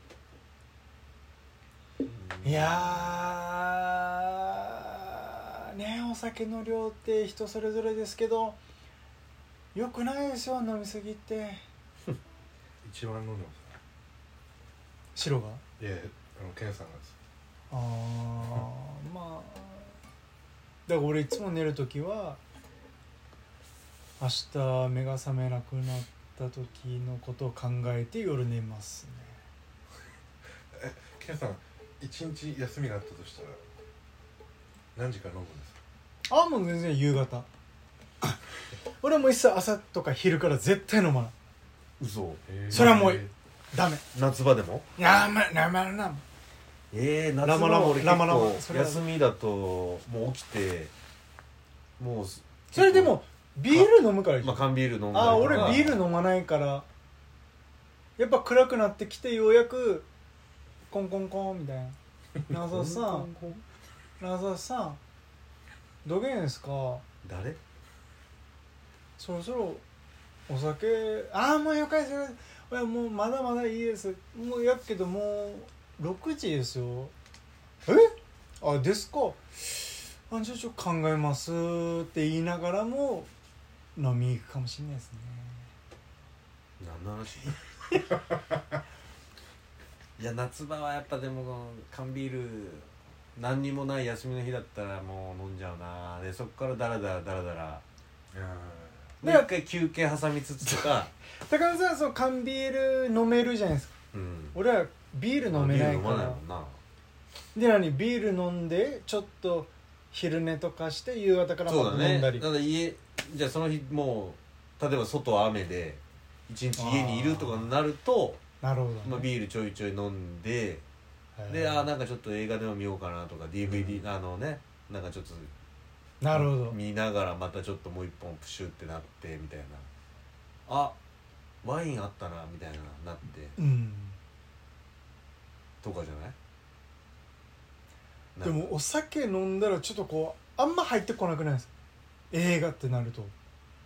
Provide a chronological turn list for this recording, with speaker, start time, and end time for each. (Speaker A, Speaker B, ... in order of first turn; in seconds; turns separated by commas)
Speaker A: 2.1-3.2, Speaker B: 2.4-8.6, Speaker B: 9.7-11.6, Speaker C: 12.8-13.8, Speaker B: 15.1-15.6, Speaker C: 15.8-17.1, Speaker B: 17.7-20.0, Speaker B: 20.9-22.4, Speaker B: 24.2-29.4, Speaker C: 30.8-33.6, Speaker C: 34.9-35.8, Speaker B: 36.3-37.5, Speaker B: 39.0-41.3, Speaker A: 42.0-43.0, Speaker C: 42.5-43.3, Speaker B: 42.7-44.0, Speaker A: 44.1-44.9, Speaker B: 45.0-46.2, Speaker A: 46.9-50.9, Speaker B: 47.4-49.0, Speaker A: 52.0-53.2, Speaker B: 52.7-56.9, Speaker A: 53.7-56.0, Speaker B: 58.2-60.1, Speaker B: 60.9-62.0, Speaker B: 62.5-63.4, Speaker A: 62.5-63.6, Speaker B: 64.2-65.0, Speaker B: 66.0-67.0, Speaker A: 67.2-67.6, Speaker B: 69.2-69.8, Speaker B: 70.5-77.1, Speaker B: 77.8-83.3, Speaker B: 84.0-85.7, Speaker A: 86.8-87.6, Speaker A: 90.2-97.8, Speaker C: 98.3-99.1, Speaker A: 99.2-101.1, Speaker B: 99.2-99.5, Speaker B: 100.8-103.9, Speaker A: 104.1-104.6, Speaker B: 104.5-106.4, Speaker A: 105.5-106.8, Speaker B: 107.5-112.5, Speaker A: 111.7-118.4, Speaker B: 116.8-117.7, Speaker B: 118.6-119.3, Speaker A: 119.0-120.8, Speaker B: 121.4-121.9, Speaker A: 121.5-125.5, Speaker B: 126.2-126.8, Speaker A: 126.3-129.9, Speaker A: 130.7-131.0, Speaker A: 131.6-133.6, Speaker B: 133.6-134.2, Speaker A: 135.8-136.3, Speaker A: 138.3-138.7, Speaker B: 138.4-141.7, Speaker B: 142.3-143.3